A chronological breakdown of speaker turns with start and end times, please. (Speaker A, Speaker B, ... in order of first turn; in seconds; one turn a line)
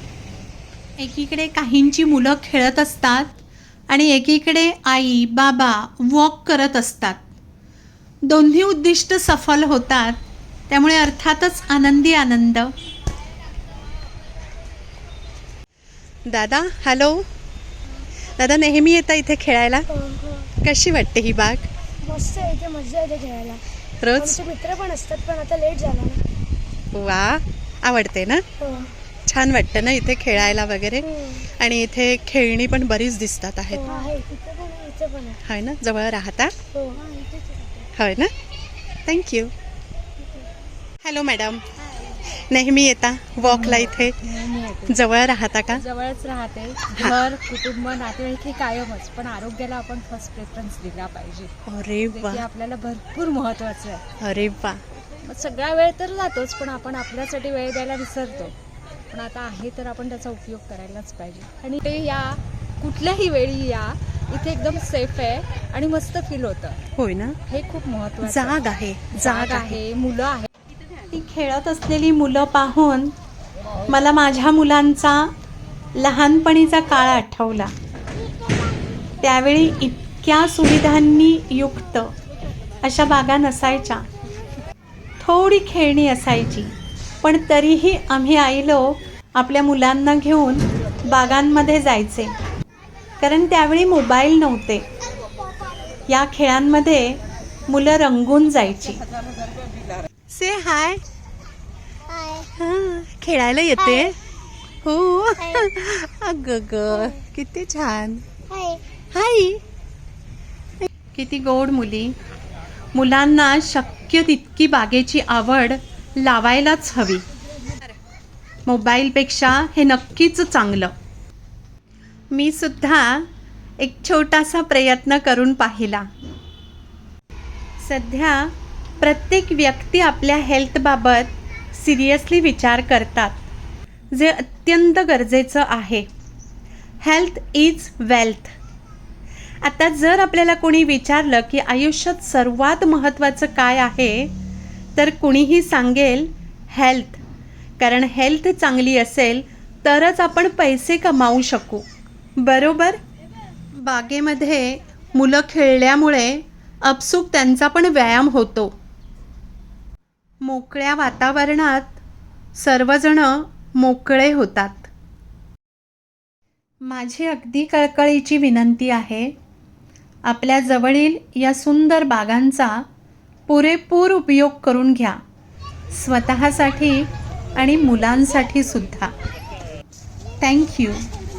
Speaker A: 1.0-3.3
Speaker A: 3.9-7.2
Speaker A: 8.3-12.7
Speaker A: 16.3-17.3
Speaker A: 18.4-19.9
Speaker B: 20.0-20.5
Speaker A: 20.6-21.7
Speaker B: 22.0-23.6
Speaker A: 24.0-24.4
Speaker B: 24.2-26.2
Speaker A: 26.9-28.5
Speaker B: 28.6-28.9
Speaker A: 29.3-33.9
Speaker B: 33.7-35.4
Speaker A: 35.4-36.5
Speaker B: 36.7-37.1
Speaker A: 37.9-38.3
Speaker A: 39.1-39.5
Speaker A: 41.0-41.7
Speaker A: 42.2-44.2
Speaker C: 43.4-45.0
Speaker A: 44.9-45.8
Speaker C: 45.7-51.5
Speaker A: 51.7-52.5
Speaker C: 52.1-54.0
Speaker A: 54.2-54.8
Speaker C: 55.2-58.5
Speaker C: 59.1-66.8
Speaker A: 67.0-67.4
Speaker C: 67.5-70.5
Speaker A: 68.2-69.8
Speaker A: 71.1-73.1
Speaker A: 73.9-75.3
Speaker A: 76.0-77.7
Speaker A: 79.2-82.2
Speaker A: 82.8-84.1
Speaker A: 85.2-92.3
Speaker A: 93.2-94.9
Speaker A: 96.1-99.0
Speaker A: 100.3-101.0
Speaker A: 102.3-104.2
Speaker A: 104.8-109.6
Speaker A: 111.1-112.2
Speaker A: 112.9-117.3
Speaker A: 118.7-120.9
Speaker A: 122.3-123.3
Speaker A: 123.8-126.1
Speaker A: 127.8-133.4
Speaker A: 134.1-136.1
Speaker A: 137.0-138.5
Speaker A: 139.6-144.3
Speaker A: 145.0-147.2
Speaker A: 147.8-151.9
Speaker A: 152.4-153.0
Speaker A: 153.8-158.8
Speaker A: 160.4-162.0
Speaker A: 162.6-164.9
Speaker A: 166.8-169.3
Speaker A: 170.3-172.9
Speaker A: 173.5-175.2
Speaker A: 175.9-179.1
Speaker A: 180.4-181.1